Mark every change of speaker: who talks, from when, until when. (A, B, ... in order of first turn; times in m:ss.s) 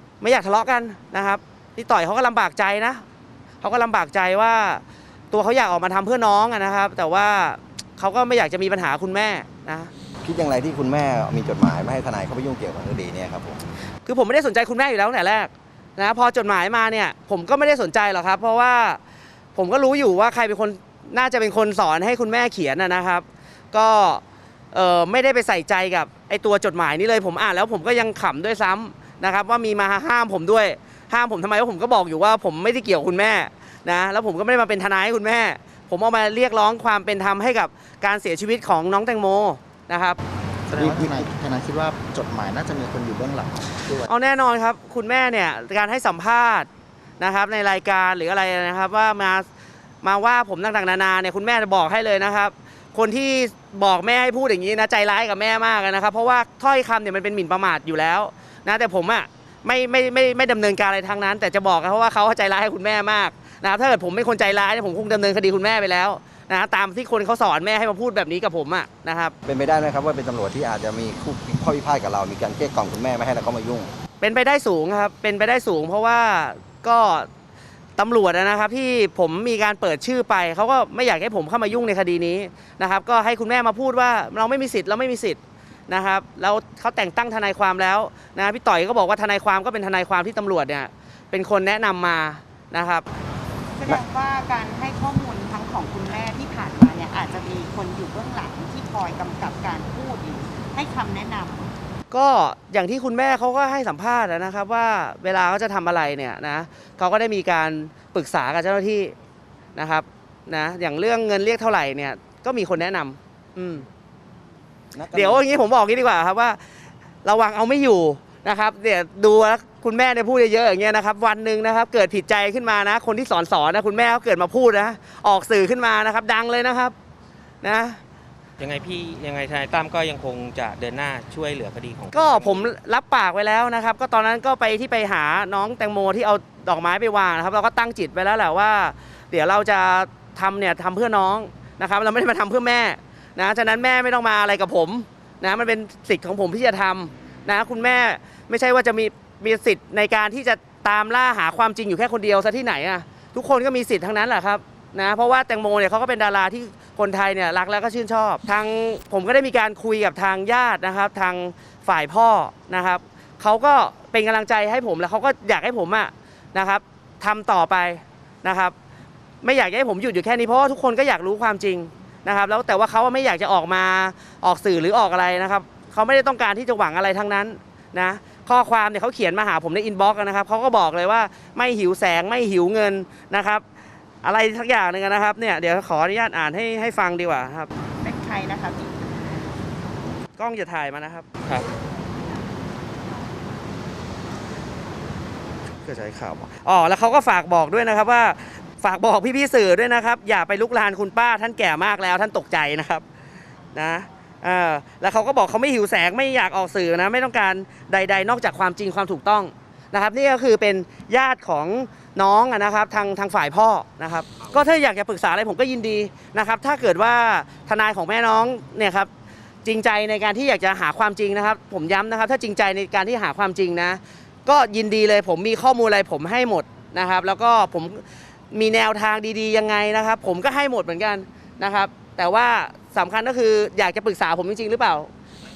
0:00.2-0:03.0 A
0:03.6-0:09.9 A
0:10.2-0:13.6 B
0:14.0-0:19.0 A
0:19.5-0:40.2 A
0:40.7-0:44.1 C
0:44.0-0:46.7 A
0:47.2-0:49.5 A
0:50.0-1:09.3 A
1:09.4-1:13.9 B
1:14.2-1:17.3 A
1:18.0-1:33.0 A
1:33.8-1:41.7 D
1:42.1-1:49.1 A
1:49.8-1:53.8 A
1:54.9-1:55.5 B
1:55.1-1:56.6 A
1:57.2-2:06.9 A
2:07.6-2:08.0 A
2:08.6-2:12.7 E
2:12.1-2:48.7 A
2:49.4-3:03.6 A
3:04.2-3:07.7 A
3:08.0-3:09.7 D
3:10.4-3:11.2 A
3:15.8-3:23.0 A
3:23.7-3:39.1 A
3:39.6-3:55.1 A